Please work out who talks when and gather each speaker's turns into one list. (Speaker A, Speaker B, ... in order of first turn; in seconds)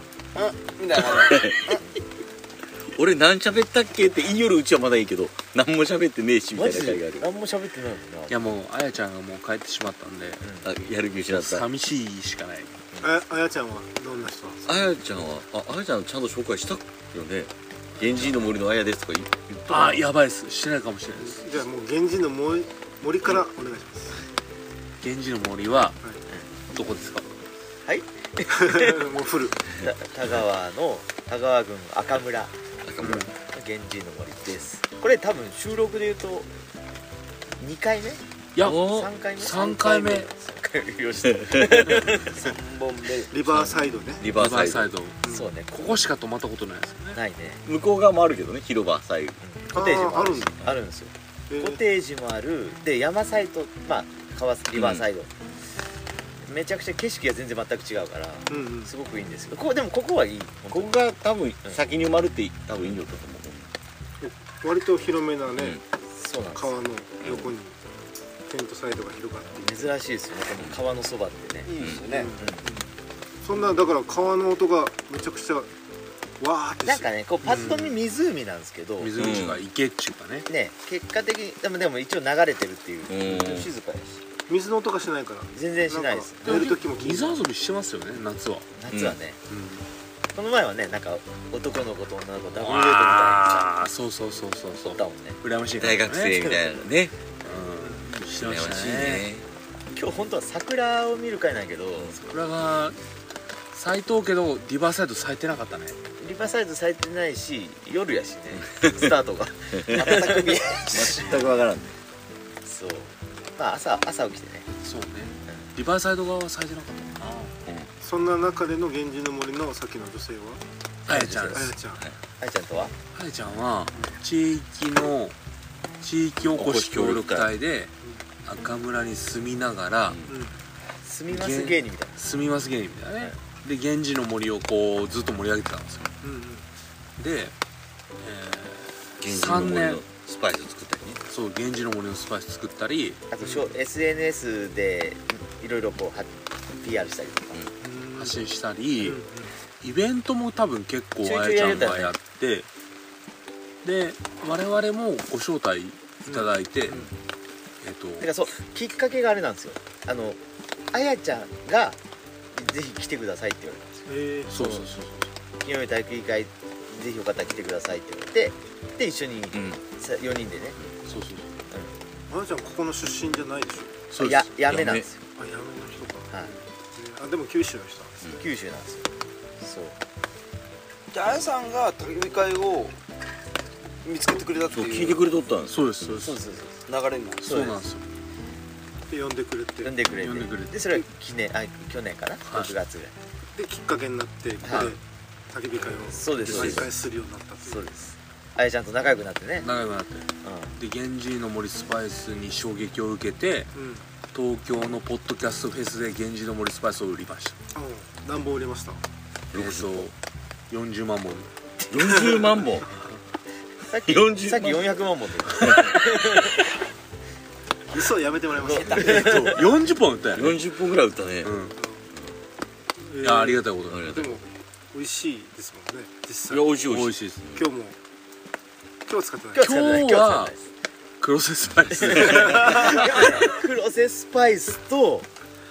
Speaker A: 0.3-1.8, 42.3-43.3, 71.7-72.3, 181.1-183.0, 184.0-185.2, 186.9-187.4
Speaker B: 1.0-1.8, 2.9-7.2, 10.6-11.7, 14.7-20.1, 32.9-33.2, 38.6-39.1, 41.3-42.2, 43.5-45.0, 47.6-49.4, 54.7-55.0, 60.7-63.7, 65.6-65.8, 67.2-67.5, 79.2-79.6, 83.1-83.7, 88.9-89.2, 95.8-97.1, 98.1-99.5, 108.6-109.1, 109.7-112.0, 126.6-127.5, 130.1-130.3, 139.2-141.2, 169.5-169.8, 174.7-175.1, 184.7-185.9, 196.5-196.8, 209.5-210.1, 211.9-212.9, 214.1-214.9, 215.6-216.0, 220.3-221.6, 223.9-224.3, 226.5-227.7, 232.0-232.9
Speaker C: 6.5-8.5, 10.4-10.7, 27.9-29.1, 29.8-32.5, 33.2-36.5, 37.6-42.4, 45.2-46.0, 47.1-47.6, 49.4-55.3, 56.4-61.0, 66.1-66.8, 69.6-71.7, 72.4-72.6, 76.8-79.2, 80.5-84.2, 85.5-86.8, 88.7-89.4, 90.3-93.7, 94.9-95.4, 99.9-102.2, 106.2-111.5, 112.6-114.7, 121.1-121.7, 122.4-122.9, 131.0-132.2, 143.3-147.6, 151.2-152.1, 158.2-160.4, 160.9-162.0, 162.5-164.9, 165.6-170.8, 174.2-175.2, 178.3-179.1, 179.6-180.0, 186.1-186.8, 187.4-187.8, 189.8-193.1, 194.6-195.0, 196.1-196.9, 197.7-199.7, 200.4-200.8, 213.9-216.6, 218.6-219.6, 229.5-230.6, 232.1-235.3
Speaker D: 8.3-10.4, 11.3-12.7, 19.7-21.5, 25.0-26.0, 26.7-27.3, 33.0-33.3, 38.6-40.3, 44.3-47.2, 77.4-78.0, 79.0-80.5, 86.5-88.7, 89.5-89.8, 92.5-96.6, 97.4-99.3, 102.2-103.0, 103.7-106.0, 114.8-117.5, 121.1-121.7, 123.1-125.3, 126.0-127.9, 128.4-130.2, 131.3-136.1, 137.2-137.6, 138.2-140.0, 141.3-143.2, 148.2-149.2, 149.8-152.7, 153.8-157.0, 157.8-158.3, 164.5-165.3, 171.1-171.6, 174.1-174.5, 185.7-186.4, 187.4-188.0, 190.2-191.0, 199.6-203.7, 204.3-207.6, 209.5-210.2, 210.7-211.5, 218.9-220.6, 221.4-221.8, 223.2-224.2, 226.9-227.4, 229.6-230.5, 231.2-233.1
Speaker E: 13.0-14.6, 21.2-24.2, 28.5-29.6, 43.3-44.3, 45.2-45.5, 49.7-50.6, 51.5-51.8, 58.5-58.9, 64.2-65.8, 66.5-67.8, 68.5-69.9, 72.1-72.9, 73.4-75.7, 76.4-77.1, 84.5-87.5, 97.8-98.1, 118.0-120.6, 121.5-122.0, 130.3-130.6, 136.2-136.6, 143.4-143.7, 147.8-148.4, 149.0-149.5, 156.3-157.1, 164.1-164.5, 172.3-174.1, 175.4-176.3, 176.9-178.2, 189.1-189.9, 193.6-197.9, 203.7-204.0, 207.7-209.0, 217.9-219.5, 223.0-226.7, 227.6-228.0, 229.1-229.6